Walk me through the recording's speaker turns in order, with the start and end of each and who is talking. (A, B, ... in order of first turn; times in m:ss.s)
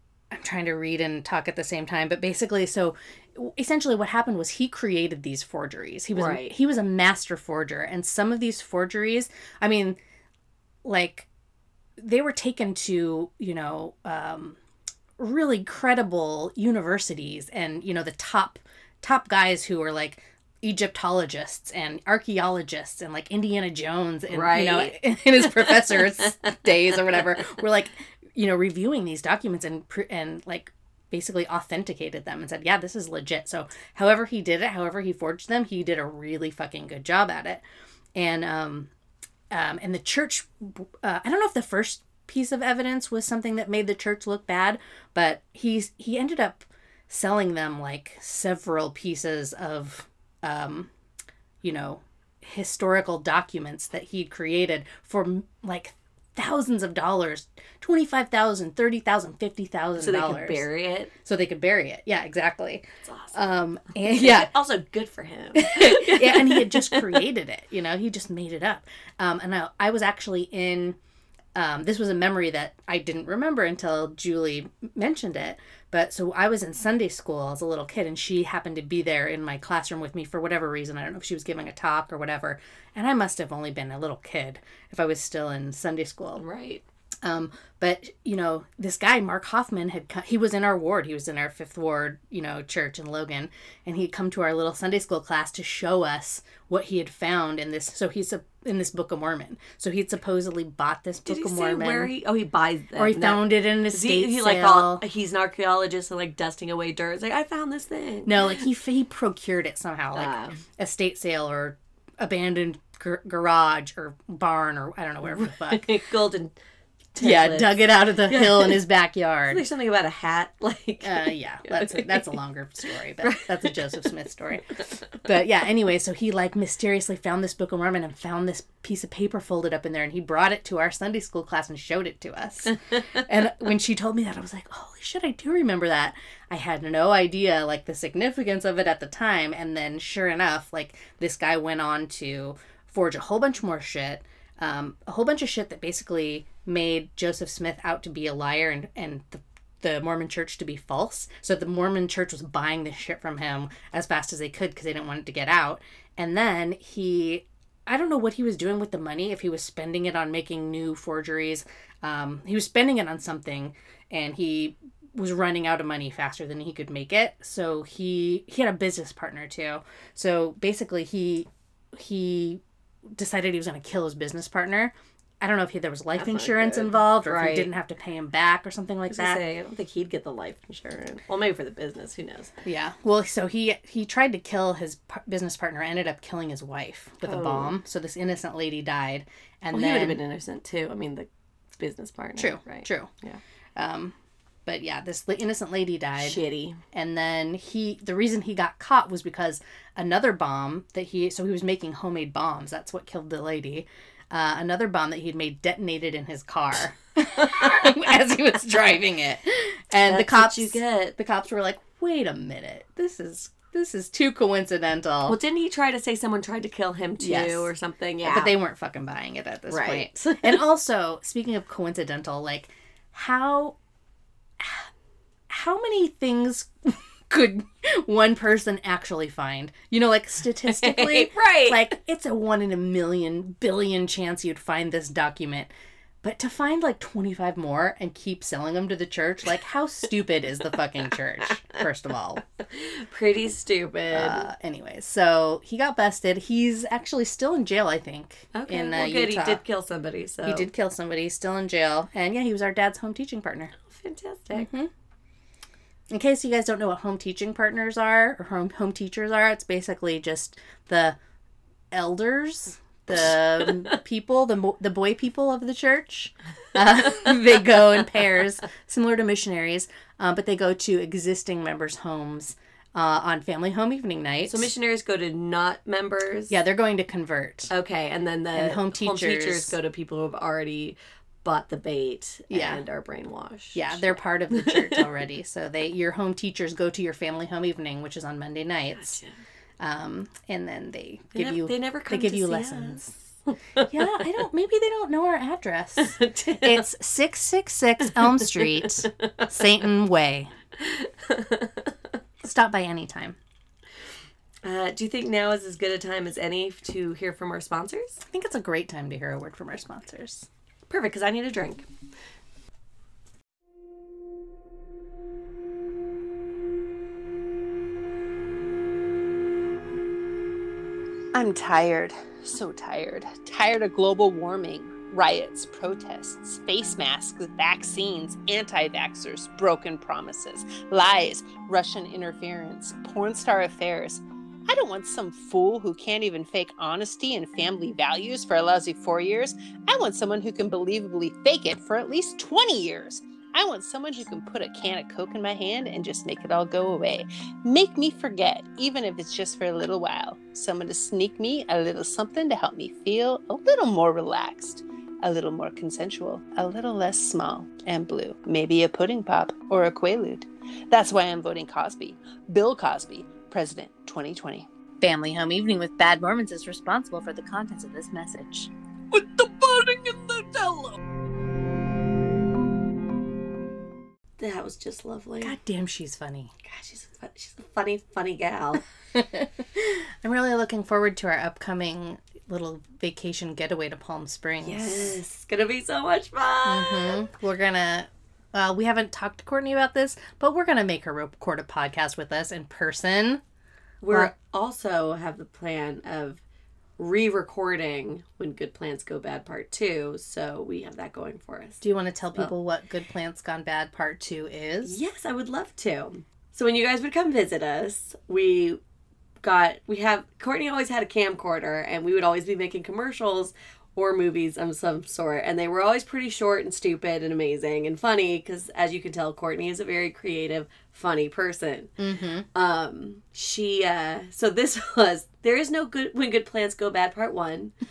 0:00.3-0:10.0 A
0:06.1-0:06.5 B
0:10.8-0:11.3 A
0:12.0-0:14.6 A
0:15.2-0:37.6 A
0:24.3-0:25.0 B
0:25.5-0:26.0 B
0:38.2-0:38.9 A
0:39.5-0:50.9 A
0:51.6-1:00.6 A
1:00.0-1:01.1 B
1:01.2-1:04.5 A
1:03.0-1:03.4 B
1:04.1-1:07.2 B
1:05.5-1:11.0 A
1:11.5-1:26.4 A
1:26.4-1:26.8 B
1:27.2-1:42.1 A
1:41.3-1:48.6 B
1:43.0-1:45.0 A
1:48.2-1:55.8 A
1:50.1-1:50.6 B
1:55.3-1:56.5 B
1:57.1-1:58.8 B
1:57.2-1:59.6 A
1:59.5-2:02.4 B
2:01.0-2:52.6 A
2:03.2-2:04.1 B
2:12.7-2:13.2 B
2:53.1-2:59.4 A
2:56.2-2:57.7 B
2:59.1-3:02.5 B
3:02.6-3:10.2 A
3:07.2-3:07.7 B
3:09.7-3:11.3 B
3:11.8-3:13.4 B
3:12.4-3:13.1 A
3:13.8-3:14.1 A
3:14.6-3:35.4 A
3:16.2-3:16.8 B
3:30.0-3:31.2 B
3:35.2-3:38.5 B
3:37.2-3:37.7 A
3:38.2-3:43.8 A
3:39.7-3:40.6 B
3:44.6-3:44.9 A
3:45.5-3:55.7 A
3:50.7-3:51.9 B
3:56.2-4:02.4 A
4:02.7-4:04.4 B
4:04.1-4:09.6 A
4:08.5-4:10.7 B
4:10.4-4:13.7 A
4:13.8-4:14.7 B
4:14.5-4:14.9 A
4:16.1-4:21.2 A
4:21.9-4:34.7 A
4:34.4-4:36.6 B
4:36.5-4:37.7 A
4:37.7-4:45.0 B
4:38.6-4:39.7 A
4:42.5-4:42.8 A
4:43.7-4:49.2 A
4:49.0-4:49.4 B
4:49.8-4:53.1 A
4:51.3-4:54.2 B
4:53.9-5:00.5 A
4:56.0-4:56.8 B
5:00.8-5:01.9 B
5:02.4-5:03.4 A
5:04.6-5:08.2 B
5:08.2-5:10.5 A
5:10.9-5:11.9 B
5:21.4-5:34.1 A
5:21.4-6:04.6 C
5:34.7-5:39.2 A
5:39.9-6:10.9 A
6:09.4-6:09.9 C
6:14.4-6:15.6 B
6:15.4-6:16.5 A
6:16.6-6:18.8 B
6:19.1-6:25.2 A
6:24.6-6:27.2 B
6:26.6-6:33.4 A
6:34.0-6:36.4 B
6:37.0-6:41.8 B
6:41.8-6:45.0 A
6:44.8-6:48.8 B
6:49.4-7:02.0 B
7:02.0-7:02.4 A
7:02.5-7:07.7 B